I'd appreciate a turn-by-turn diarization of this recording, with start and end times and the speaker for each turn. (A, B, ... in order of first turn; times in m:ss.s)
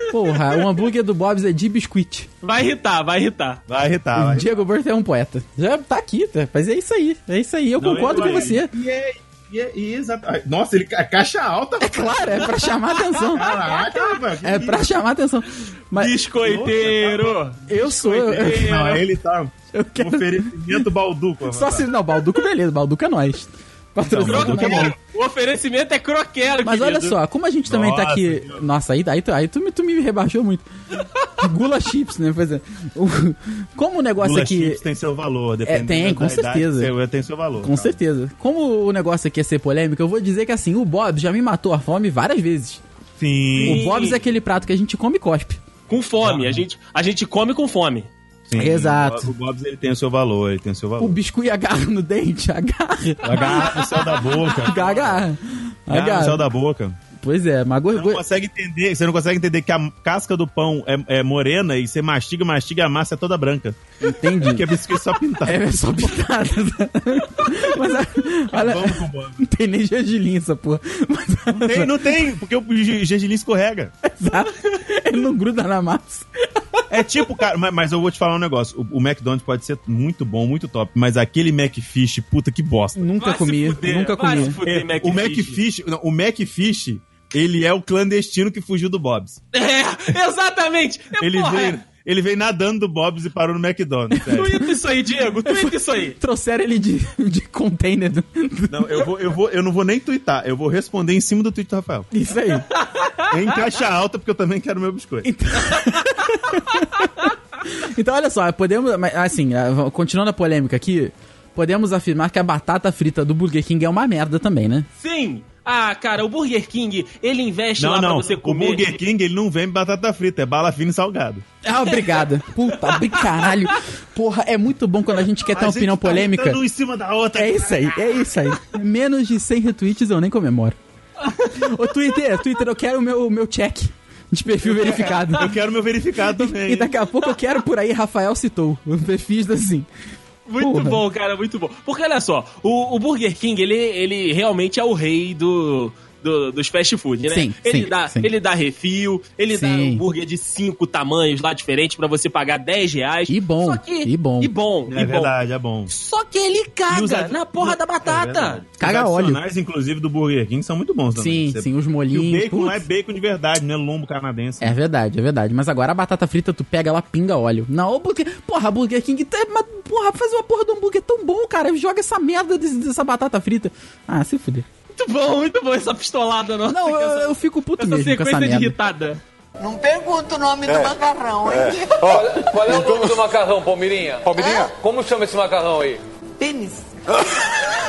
0:00.1-0:02.3 A
0:00.2-0:00.8 B
0:02.4-0:03.6 B
0:03.7-0:04.5 C
0:04.2-0:08.7 A
0:07.8-0:12.5 C
0:08.1-0:08.5 B
0:11.8-0:13.6 A
0:12.9-0:13.8 B
0:13.3-0:14.9 C
0:14.4-0:16.1 A
0:15.9-0:19.0 B
0:16.4-0:21.9 C
0:17.7-0:18.8 A
0:19.7-0:20.8 A
0:21.5-0:24.9 A
0:24.0-0:25.0 C
0:24.2-0:27.2 B
0:26.6-0:30.6 A
0:27.7-0:28.6 C
0:31.4-0:34.8 A
0:34.2-0:38.0 C
0:35.6-0:36.9 A
0:37.6-0:42.8 A
0:43.2-0:43.9 C
0:43.6-0:44.2 B
0:43.6-0:45.6 A
0:45.9-0:48.1 B
0:46.2-0:46.6 C
0:48.5-0:51.2 C
0:48.6-0:49.3 A
0:51.0-0:53.8 A
0:53.2-0:55.2 C
0:53.4-0:53.8 B
0:54.6-0:56.4 A
0:55.9-0:57.0 C
0:57.2-0:58.2 A
0:57.9-1:05.6 C
1:04.0-1:04.6 A
1:05.4-1:12.0 A
1:08.5-1:09.4 C
1:11.5-1:13.9 C
1:14.0-1:16.8 A
1:16.9-1:23.1 C
1:23.0-1:24.6 A
1:23.2-1:25.6 B
1:24.6-1:29.4 C
1:29.5-1:31.8 B
1:31.2-1:34.6 C
1:34.1-1:34.6 A
1:34.3-1:36.2 B
1:35.5-1:39.0 A
1:38.7-1:42.1 C
1:42.1-1:42.7 A
1:42.7-1:43.4 B
1:43.3-1:45.3 C
1:45.2-1:54.9 A
1:55.0-1:58.9 B
1:57.8-2:01.4 C
2:01.6-2:06.6 A
2:01.9-2:03.5 B
2:05.5-2:08.1 C
2:07.4-2:10.8 A
2:11.2-2:11.6 B
2:11.5-2:15.5 A
2:14.8-2:15.4 B
2:14.8-2:16.9 C
2:16.4-2:19.9 A
2:20.5-2:35.3 B
2:20.6-2:21.0 A
2:27.3-2:28.3 A
2:29.5-2:30.0 A
2:33.3-2:34.5 A
2:34.9-2:35.9 C
2:35.9-2:38.6 B
2:36.9-2:44.8 C
2:38.8-2:39.4 A
2:41.2-2:42.8 A
2:44.6-2:54.7 A
2:54.9-2:59.2 B
2:56.7-2:58.8 A
2:59.6-3:02.6 D
3:02.0-3:06.0 E
3:04.4-3:04.7 D
3:06.4-3:06.9 D